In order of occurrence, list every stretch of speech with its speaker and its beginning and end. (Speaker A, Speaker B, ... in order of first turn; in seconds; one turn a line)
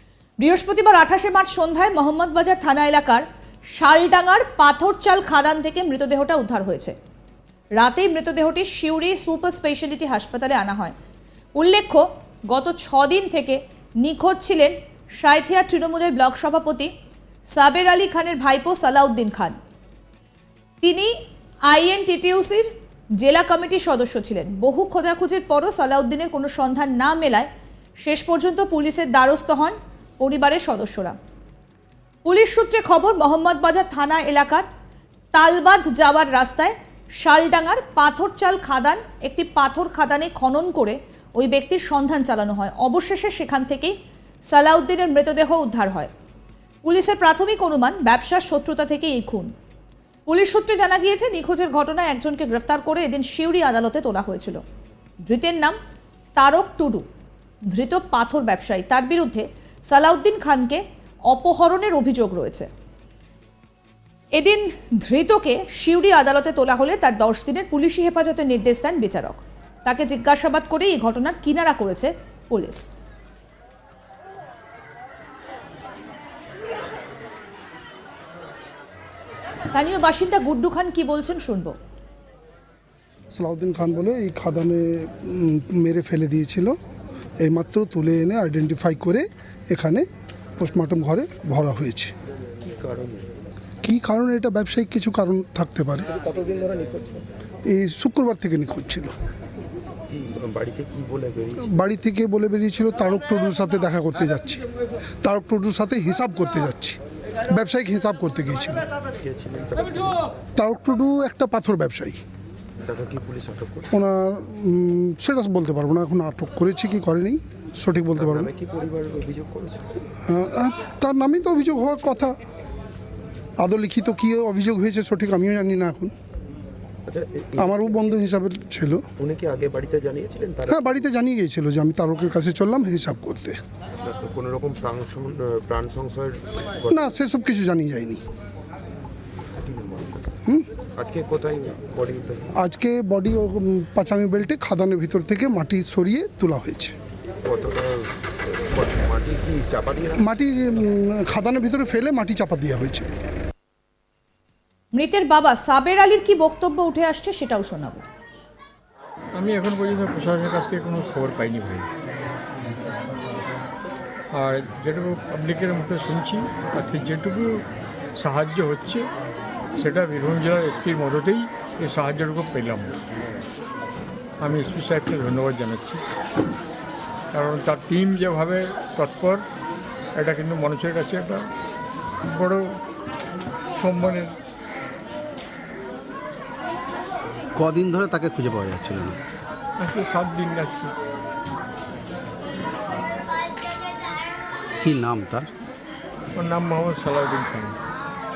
Speaker A: 0.4-3.2
Speaker A: 3.8-6.9
Speaker A: 7.8-10.9
Speaker A: 11.6-16.9
Speaker A: 17.5-19.6
Speaker A: 20.8-21.1
Speaker A: 21.7-27.5
Speaker A: 28.0-31.2
Speaker A: 32.2-34.6
Speaker A: 35.3-43.9
Speaker A: 44.5-46.1
Speaker A: 46.8-49.5
Speaker A: 50.3-54.6
Speaker A: 55.3-55.8
Speaker A: 56.4-57.0
Speaker A: 57.7-62.7
Speaker A: 64.3-72.8
Speaker A: 79.7-81.8
Speaker B: 83.3-86.8
Speaker B: 87.4-90.0
Speaker B: 90.6-92.1
Speaker C: 92.6-93.3
Speaker B: 93.8-96.2
Speaker B: 97.7-99.1
Speaker C: 100.1-101.7
Speaker B: 101.6-104.6
Speaker B: 105.2-107.0
Speaker B: 107.5-108.9
Speaker C: 109.2-110.2
Speaker B: 110.6-112.2
Speaker C: 112.8-113.9
Speaker B: 113.9-118.5
Speaker C: 118.2-119.9
Speaker B: 120.2-122.4
Speaker B: 123.6-126.1
Speaker C: 127.1-127.7
Speaker B: 127.6-129.1
Speaker C: 129.2-131.0
Speaker B: 130.7-133.6
Speaker C: 134.0-136.9
Speaker B: 136.9-138.2
Speaker C: 139.6-140.2
Speaker C: 141.0-142.5
Speaker B: 142.5-146.9
Speaker C: 147.4-150.2
Speaker B: 150.2-153.1
Speaker A: 154.9-158.0
Speaker D: 159.4-161.9
Speaker D: 164.3-167.5
Speaker D: 168.2-169.1
Speaker D: 169.8-172.9
Speaker D: 174.4-176.0
Speaker D: 177.3-179.4
Speaker D: 180.2-181.4
Speaker D: 182.2-182.7
Speaker D: 183.8-184.3
Speaker E: 187.6-189.2
Speaker D: 189.8-190.9
Speaker E: 194.8-195.5
Speaker D: 196.4-197.8